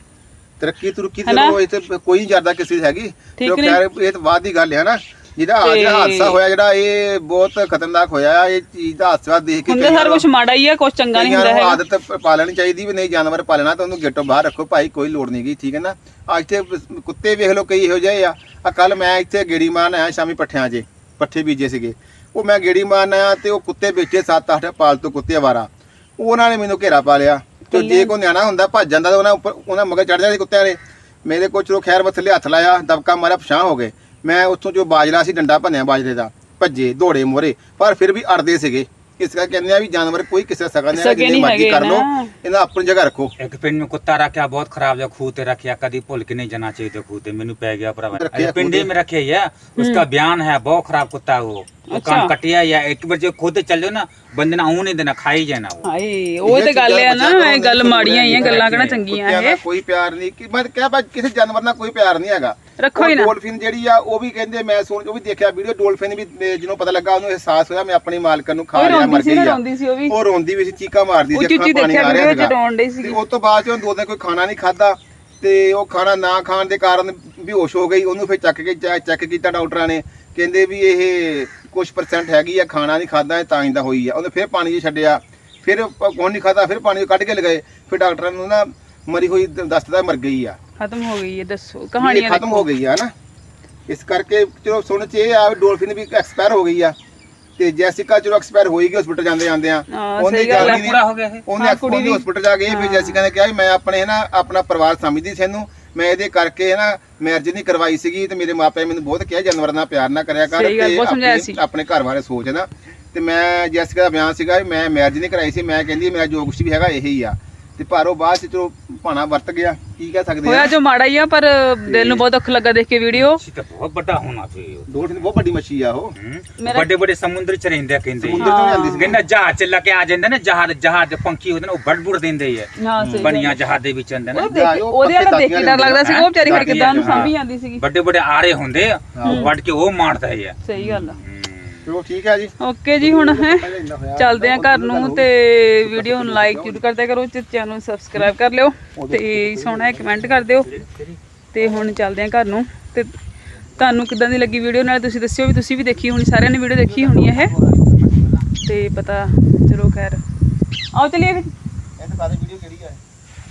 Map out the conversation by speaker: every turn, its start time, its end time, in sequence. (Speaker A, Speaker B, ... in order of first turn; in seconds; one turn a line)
Speaker A: 0.6-10.3
Speaker B: 1.3-1.6
Speaker B: 3.4-3.8
Speaker B: 5.6-6.4
Speaker B: 9.7-11.8
Speaker A: 11.2-43.3
Speaker B: 27.7-28.1
Speaker B: 40.9-42.3
Speaker C: 43.4-55.9
Speaker A: 48.1-48.9
Speaker B: 49.8-50.0
Speaker B: 51.9-52.3
Speaker B: 55.8-59.6
Speaker A: 56.5-90.6
Speaker C: 58.3-59.0
Speaker B: 62.8-63.3
Speaker B: 68.8-70.2
Speaker B: 71.3-73.2
Speaker B: 90.8-92.7
Speaker A: 92.0-93.1
Speaker A: 93.9-97.0
Speaker A: 97.6-120.7
Speaker B: 99.9-100.9
Speaker C: 100.5-101.4
Speaker B: 101.6-103.2
Speaker B: 110.5-111.6
Speaker B: 120.4-123.4
Speaker A: 121.9-122.2
Speaker C: 123.2-124.9
Speaker A: 124.9-126.2
Speaker C: 126.2-134.5
Speaker B: 126.6-126.9
Speaker A: 128.2-129.2
Speaker B: 128.4-129.1
Speaker B: 132.8-133.6
Speaker A: 133.0-133.3
Speaker A: 134.3-137.3
Speaker B: 134.4-137.8
Speaker C: 136.0-141.9
Speaker A: 139.2-139.5
Speaker B: 139.2-139.5
Speaker B: 140.7-141.2
Speaker A: 140.8-141.1
Speaker A: 141.9-145.3
Speaker B: 142.6-143.7
Speaker B: 144.2-150.7
Speaker A: 145.8-146.8
Speaker A: 149.0-150.6
Speaker C: 150.7-151.2
Speaker B: 151.5-153.1
Speaker B: 153.8-157.5
Speaker C: 156.9-158.5
Speaker B: 158.6-160.2
Speaker B: 160.9-161.5
Speaker A: 162.0-163.0